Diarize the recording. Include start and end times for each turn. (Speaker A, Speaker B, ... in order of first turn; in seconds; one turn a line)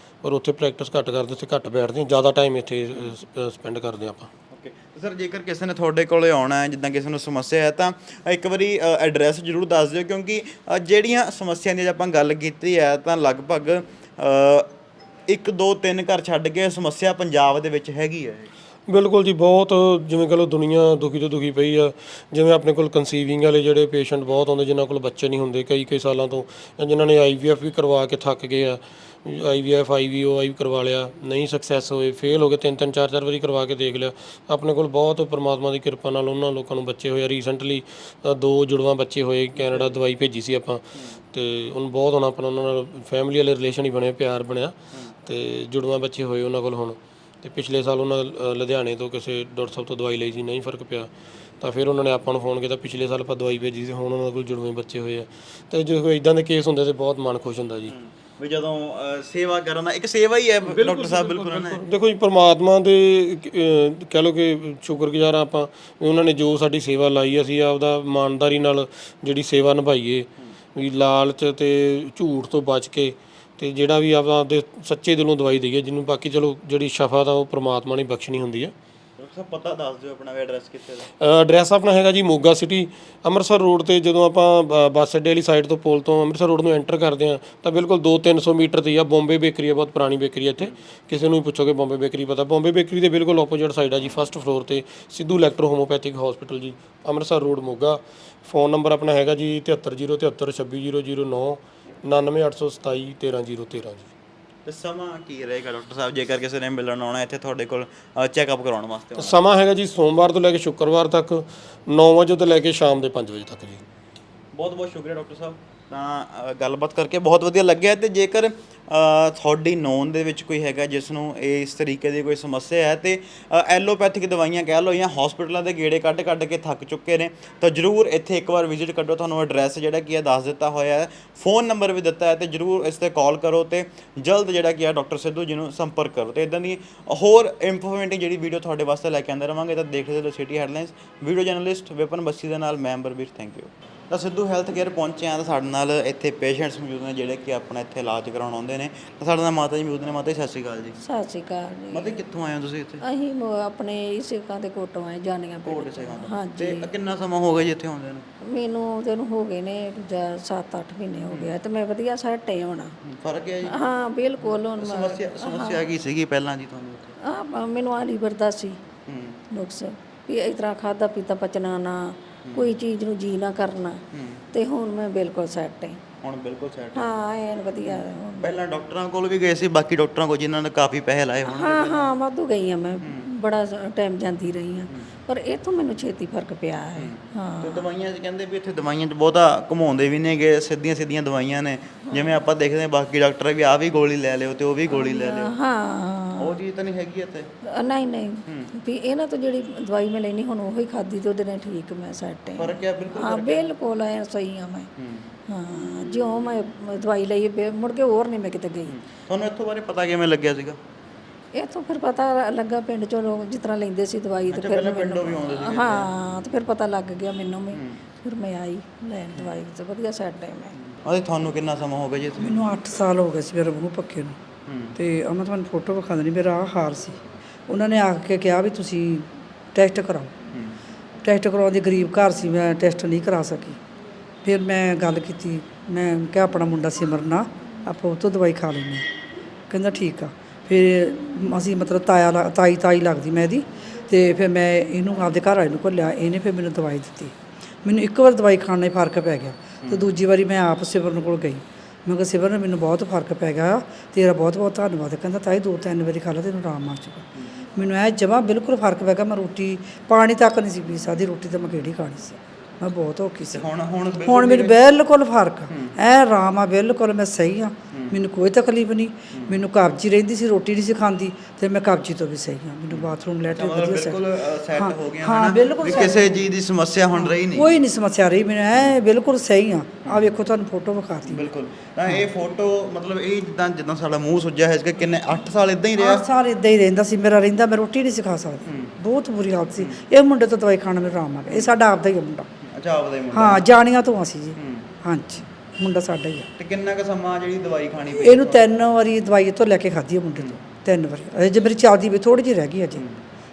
Speaker A: 0.2-4.3
Speaker B: 4.5-14.7
Speaker B: 15.3-18.5
Speaker A: 18.9-51.1
Speaker A: 51.6-57.9
Speaker B: 57.9-61.8
Speaker A: 60.6-78.7
Speaker B: 79.2-81.1
Speaker A: 81.2-104.1
Speaker B: 104.6-109.3
Speaker A: 109.2-113.8
Speaker B: 114.5-151.0
Speaker C: 151.0-152.2
Speaker B: 151.9-153.0
Speaker C: 153.0-156.9
Speaker B: 155.6-158.2
Speaker C: 158.5-162.9
Speaker B: 163.0-163.8
Speaker C: 163.7-165.8
Speaker B: 164.4-167.1
Speaker C: 167.2-168.8
Speaker B: 169.1-169.4
Speaker C: 169.5-176.0
Speaker B: 172.4-172.7
Speaker B: 174.1-174.4
Speaker B: 176.2-177.1
Speaker C: 176.9-178.6
Speaker B: 177.8-182.1
Speaker C: 181.4-187.9
Speaker B: 183.0-183.3
Speaker B: 186.9-195.5
Speaker C: 194.9-196.6
Speaker B: 196.3-197.5
Speaker C: 197.8-204.9
Speaker B: 198.4-198.7
Speaker B: 202.5-203.7
Speaker B: 205.0-205.3
Speaker C: 205.5-208.9
Speaker B: 208.8-210.8
Speaker C: 211.5-220.7
Speaker B: 214.5-216.1
Speaker B: 217.7-218.0
Speaker B: 221.0-222.6
Speaker D: 222.4-224.3
Speaker B: 224.7-224.9
Speaker D: 224.9-230.3
Speaker D: 231.2-233.8
Speaker D: 234.4-239.1
Speaker D: 239.7-263.6
Speaker B: 249.8-250.1
Speaker B: 263.5-264.8
Speaker D: 264.2-274.2
Speaker B: 265.7-265.9
Speaker B: 267.9-268.2
Speaker B: 269.3-269.6
Speaker B: 272.9-277.8
Speaker D: 274.8-276.4
Speaker D: 277.2-281.5
Speaker B: 280.0-280.3
Speaker B: 281.2-286.2
Speaker D: 286.0-292.5
Speaker B: 288.6-288.9
Speaker B: 292.7-293.6
Speaker D: 293.3-296.5
Speaker B: 294.6-294.9
Speaker B: 296.6-298.7
Speaker D: 298.2-303.0
Speaker B: 300.3-300.6